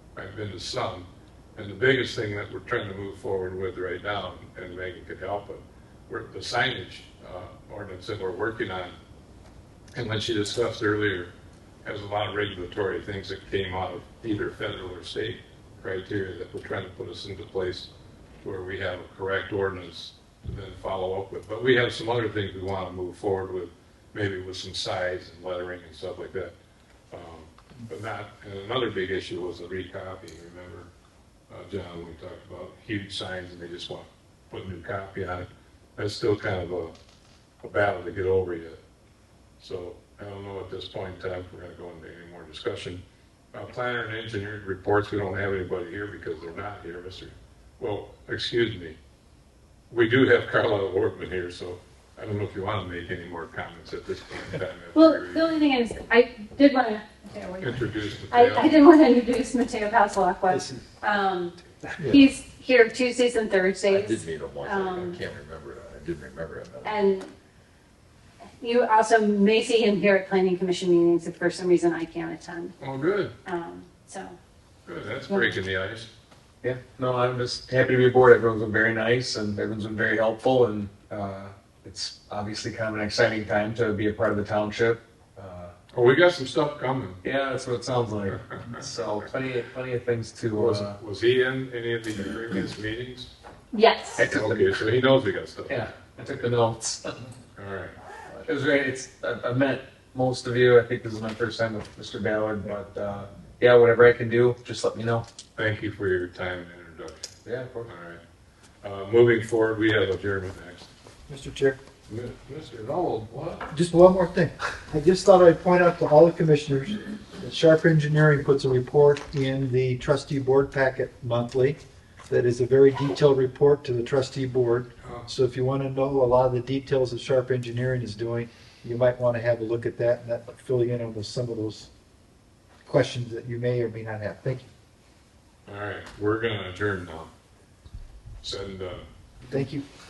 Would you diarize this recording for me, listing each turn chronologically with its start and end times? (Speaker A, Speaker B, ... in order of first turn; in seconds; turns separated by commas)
Speaker A: 0.1-8.9, Speaker A: 9.9-11.3, Speaker A: 11.8-17.9, Speaker A: 18.4-26.5, Speaker A: 27.1-30.9, Speaker A: 31.5-36.9, Speaker A: 37.6-38.8, Speaker A: 39.6-49.0, Speaker A: 49.9-55.5, Speaker B: 54.9-65.2, Speaker A: 57.6-58.8, Speaker C: 60.5-60.8, Speaker C: 62.0-62.3, Speaker D: 63.9-67.0, Speaker B: 66.8-67.3, Speaker B: 68.6-72.8, Speaker A: 72.8-73.3, Speaker B: 73.4-74.3, Speaker A: 74.8-76.1, Speaker B: 75.3-75.6, Speaker E: 76.6-85.7, Speaker A: 85.9-87.2, Speaker E: 87.2-91.0, Speaker A: 90.5-93.3, Speaker B: 93.7-94.2, Speaker E: 94.2-94.8, Speaker A: 94.2-95.9, Speaker E: 95.7-97.2, Speaker A: 97.5-97.9, Speaker E: 98.4-105.2, Speaker A: 105.5-107.3, Speaker E: 107.4-107.9, Speaker A: 107.8-108.2, Speaker A: 108.8-110.9, Speaker C: 111.3-111.8, Speaker A: 112.1-113.7, Speaker C: 113.7-131.9, Speaker A: 125.0-125.3, Speaker C: 132.8-134.7, Speaker A: 135.7-137.3, Speaker A: 138.4-139.0, Speaker C: 139.5-139.8